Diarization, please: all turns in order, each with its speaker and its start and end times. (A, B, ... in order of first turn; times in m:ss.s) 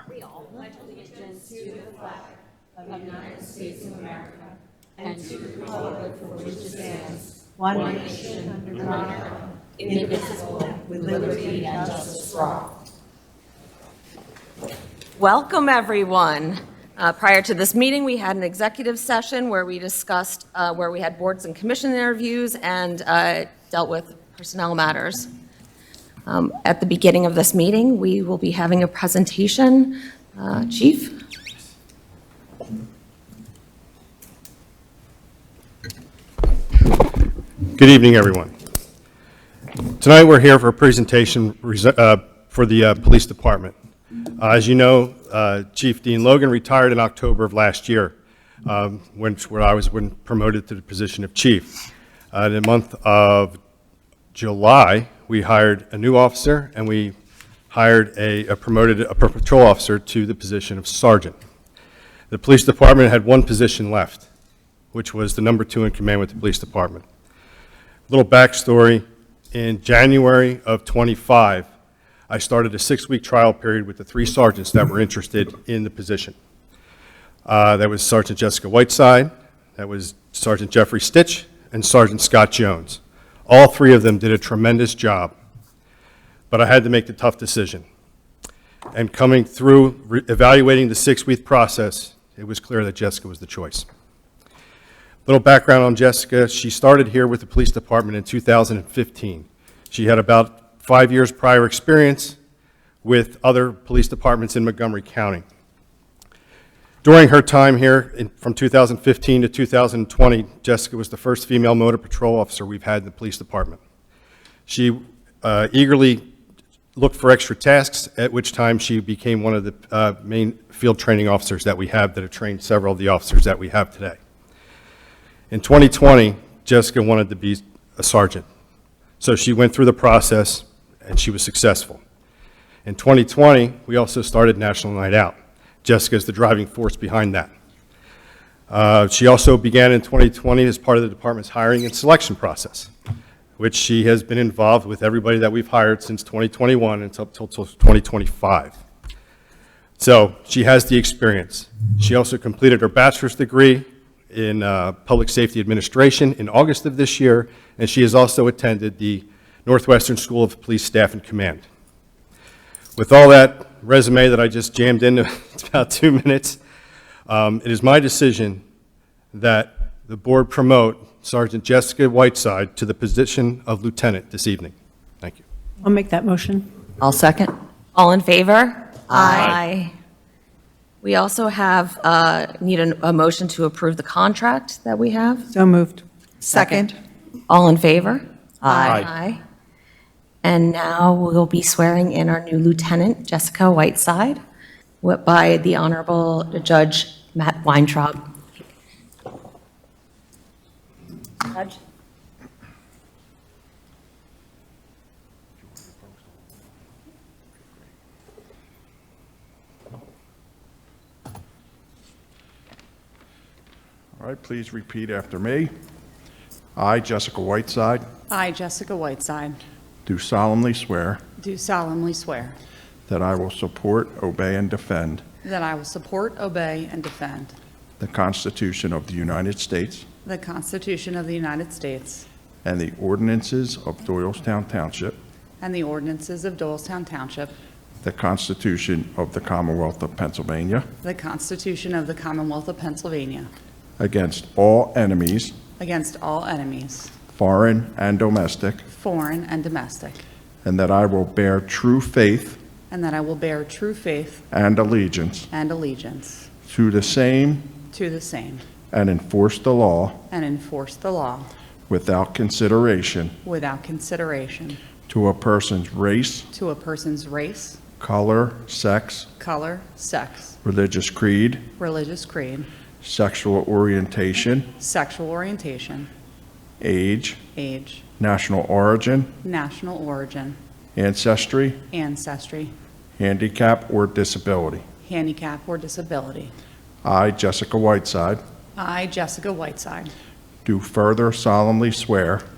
0:05.0-0:07.0 A
0:07.6-0:12.7 A
0:15.2-0:25.3 B
0:26.3-0:31.2 B
0:37.8-0:38.5 C
0:40.0-0:43.7 C
0:44.4-0:48.2 C
0:48.7-0:51.7 C
0:52.3-0:53.6 C
0:54.3-0:57.2 C
0:57.7-1:01.4 C
1:02.3-1:04.2 C
1:04.9-1:07.0 C
1:08.1-1:11.7 C
1:12.3-1:16.3 C
1:17.5-1:25.3 C
1:26.5-1:27.8 C
1:28.9-1:33.9 C
1:35.3-1:42.4 C
1:43.0-1:45.4 C
1:47.0-1:53.8 C
1:54.7-1:56.2 C
1:57.0-2:04.2 C
2:05.5-2:08.4 C
2:09.2-2:12.0 C
2:12.9-2:17.5 C
2:18.7-2:22.9 C
2:23.6-2:28.8 C
2:30.0-2:41.6 C
2:43.0-2:46.6 C
2:47.3-2:48.6 C
2:49.3-2:55.4 C
2:55.8-2:56.7 A
2:57.0-2:59.9 B
3:01.0-3:05.5 B
3:05.5-3:06.9 A
3:06.5-3:06.9 B
3:07.5-3:09.4 B
3:10.4-3:14.4 B
3:15.0-3:18.2 B
3:21.4-3:21.8 B
3:25.7-3:26.4 D
3:34.2-3:35.7 D
3:36.8-3:38.0 D
3:38.3-3:39.6 E
3:40.1-3:41.2 D
3:41.4-3:42.6 E
3:43.1-3:45.2 D
3:45.4-3:47.6 E
3:48.0-3:50.1 D
3:50.2-3:52.2 E
3:52.6-3:55.2 D
3:55.6-3:57.6 E
3:58.0-4:00.9 D
4:01.0-4:03.5 E
4:04.0-4:05.5 D
4:05.8-4:07.1 E
4:07.3-4:08.9 D
4:08.9-4:10.2 E
4:10.6-4:12.6 D
4:12.9-4:14.4 E
4:14.5-4:15.5 D
4:15.5-4:16.5 E
4:16.6-4:17.8 D
4:17.9-4:18.6 E
4:18.9-4:20.3 D
4:20.3-4:21.5 E
4:21.9-4:23.4 D
4:23.4-4:24.8 E
4:25.1-4:26.5 D
4:26.5-4:27.8 E
4:28.0-4:29.3 D
4:29.4-4:30.6 E
4:30.6-4:31.7 D
4:31.8-4:32.7 E
4:33.0-4:34.7 D
4:34.8-4:36.1 E
4:36.8-4:37.4 D
4:37.5-4:38.0 E
4:38.2-4:39.3 D
4:39.4-4:40.6 E
4:41.0-4:41.9 D
4:41.9-4:42.7 E
4:43.2-4:44.8 D
4:45.0-4:46.5 E
4:47.0-4:48.4 D
4:48.8-4:50.1 E
4:50.6-4:52.4 D